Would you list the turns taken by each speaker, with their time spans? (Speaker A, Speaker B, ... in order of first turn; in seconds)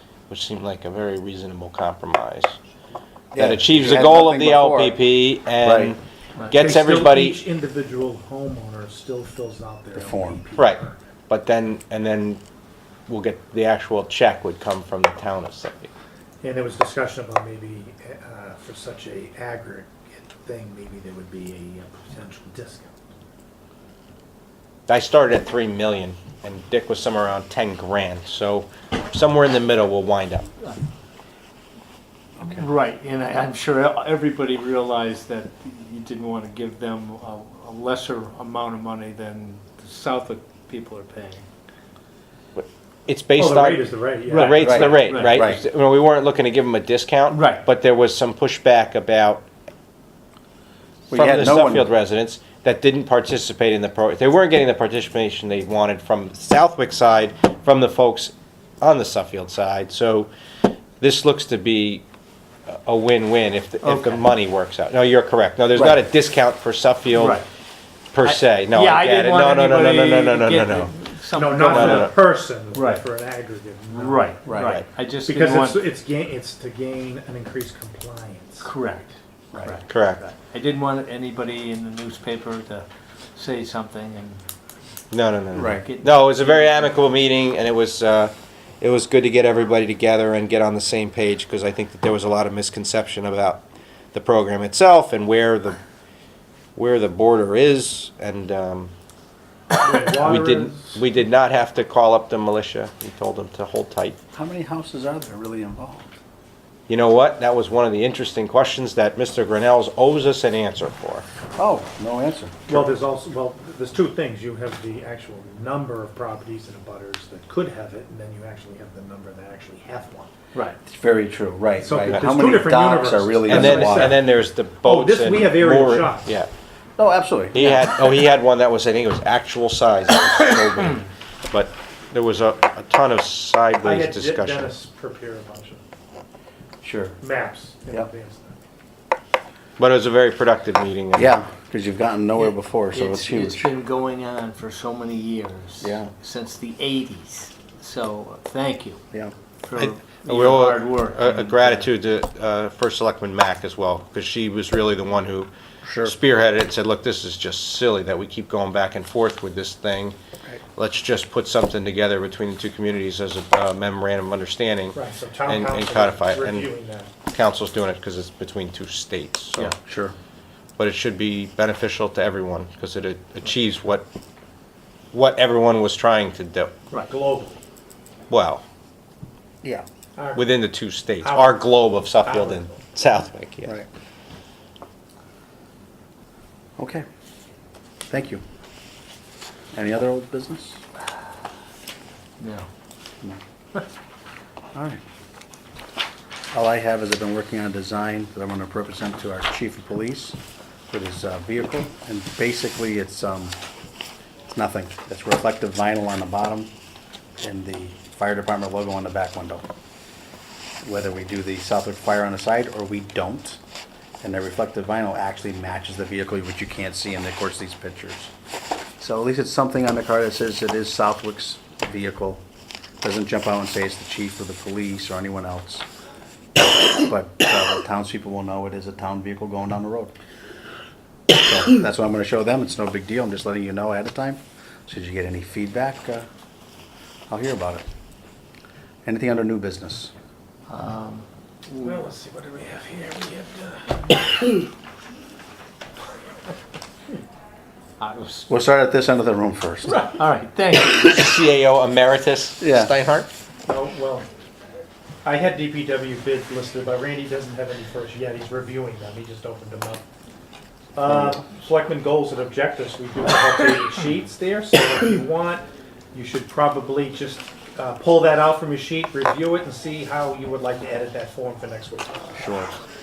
Speaker A: 0.3-2.6, 3.4-7.4, 10.6-12.4, 13.1-15.9, 24.9-30.5, 42.5-49.5, 51.1-60.3, 61.0-62.0, 62.7-67.4, 68.1-70.9, 71.6-72.1, 74.6-74.8, 79.9-80.2, 85.1-95.8, 96.8-98.9, 100.1-104.2, 106.9-111.2, 123.5-126.5, 127.5-134.8, 139.8-141.3, 149.7-155.5, 156.0-160.2, 160.7-166.7, 167.3-169.7, 170.8-174.1, 175.1-176.8, 178.3-178.6, 180.3-183.8, 250.8-253.3
Speaker B: 3.3-5.0, 5.6-5.9, 9.9-10.4, 32.4-32.6, 44.6-45.6, 51.1-51.9, 63.8-64.2, 65.7-66.0, 74.4-74.8, 79.5-79.8, 85.5-85.8, 104.3-106.1, 111.5-112.8, 120.8-124.2, 127.0-127.8, 136.8-137.2, 141.2-143.7, 145.8-146.1, 155.8-156.1, 169.8-170.1, 186.8-187.0, 188.1-188.4, 189.7-190.8, 194.7-195.0, 196.5-200.4, 200.9-203.6, 204.5-206.7, 207.4-209.6, 210.8-213.6, 214.2-218.3, 219.0-222.4, 223.0-225.8, 226.9-230.1, 231.3-236.3, 237.3-237.8, 239.0-240.1, 248.5-250.0, 252.6-252.9, 261.1-261.4, 272.3-272.7
Speaker C: 6.5-11.0, 16.4-22.9, 43.3-45.0, 71.3-74.4, 75.2-78.7, 99.8-101.0, 112.7-120.3, 121.8-126.4, 133.8-135.8, 137.2-138.6, 164.9-167.1, 177.1-177.6, 180.2-180.5, 181.2-181.7, 182.2-182.7, 241.8-244.1, 253.7-254.3, 255.2-260.0, 260.9-272.3
Speaker D: 32.4-41.5, 44.3-45.4, 47.3-47.6, 67.1-67.5, 68.2-73.0, 73.9-75.9, 78.6-84.4, 85.8-86.9, 142.4-149.0, 149.6-151.9, 192.4-192.7, 240.7-242.0, 248.0-248.5, 249.9-251.4